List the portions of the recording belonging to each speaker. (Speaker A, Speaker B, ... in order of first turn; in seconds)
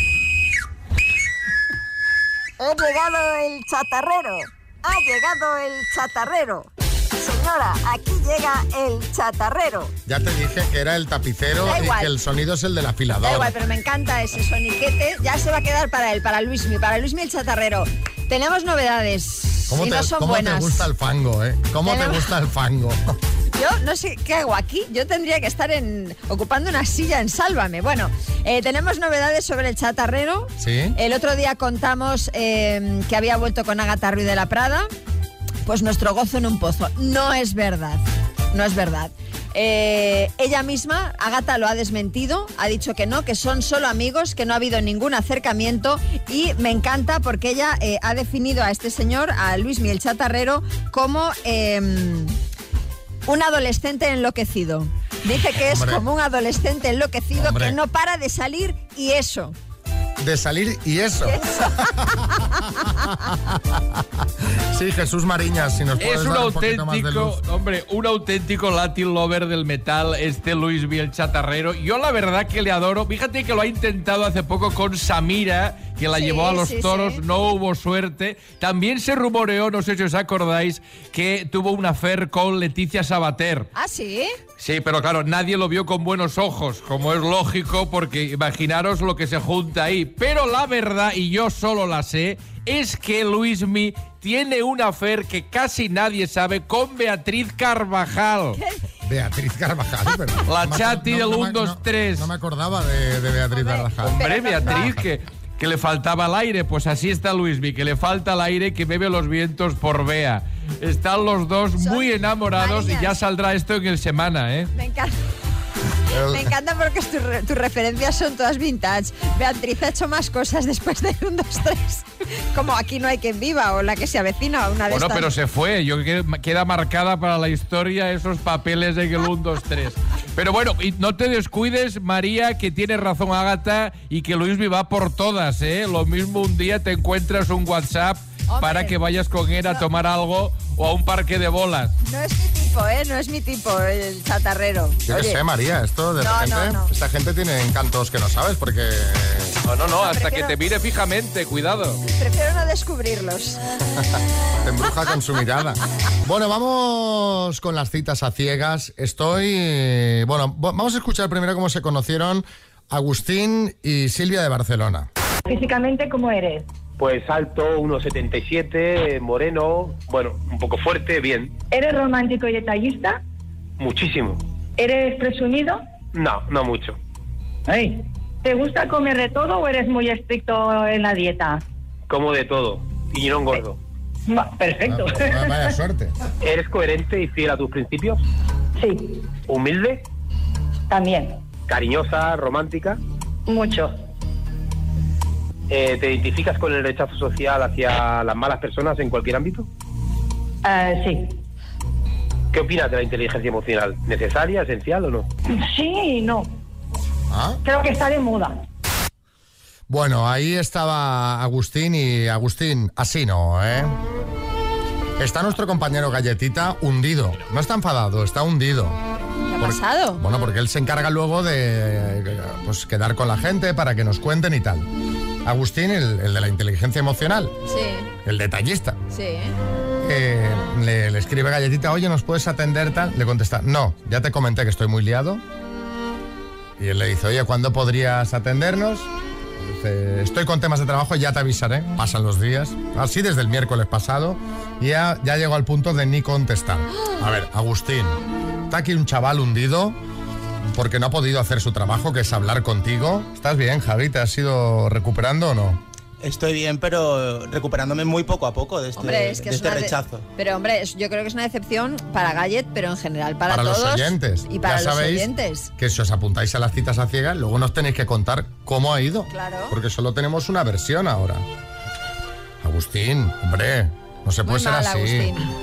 Speaker A: 2.6-9.9, 11.6-12.1, 13.2-20.9, 21.9-22.2, 23.5-34.9, 35.7-52.4, 53.3-59.5, 61.3-61.9, 76.1-77.2, 83.8-84.4, 103.5-105.0, 111.8-113.2, 114.7-115.2, 116.3-125.3, 138.5-139.0, 142.1-145.4, 146.2-146.9, 149.9-150.6, 152.1-153.6, 219.5-220.2, 227.7-228.1, 229.1-229.6, 259.0-265.7, 269.3-269.8, 274.5-275.5
Speaker B: 10.1-13.5, 19.7-23.1, 30.6-31.0, 55.5-56.0, 57.4-57.8, 60.2-61.4, 62.0-62.3, 62.9-64.0, 64.7-67.4, 99.0-105.0, 116.1-116.5, 145.1-149.6, 154.6-165.1, 184.9-186.1, 207.3-207.6, 209.9-213.9, 215.2-219.0, 219.6-224.9, 225.4-227.6, 228.2-229.0, 230.0-235.4, 236.8-250.0, 250.7-255.8, 263.5-271.4, 272.6-275.3
Speaker C: 66.0-83.7, 84.6-98.6, 100.5-102.3, 104.1-114.7, 124.9-141.9, 149.7-152.0
Speaker D: 165.5-166.7, 171.7-173.2, 174.8-175.8, 177.7-181.6, 184.3-185.7, 188.8-189.2, 190.9-191.4, 193.5-193.9, 200.7-201.4, 205.5-206.5, 207.6-208.6
Speaker E: 167.0-171.5, 173.8-174.4, 176.1-177.0, 182.1-183.8, 186.4-188.2, 189.5-190.1, 191.7-193.0, 195.7-199.7, 202.5-205.3
Speaker F: 256.2-260.3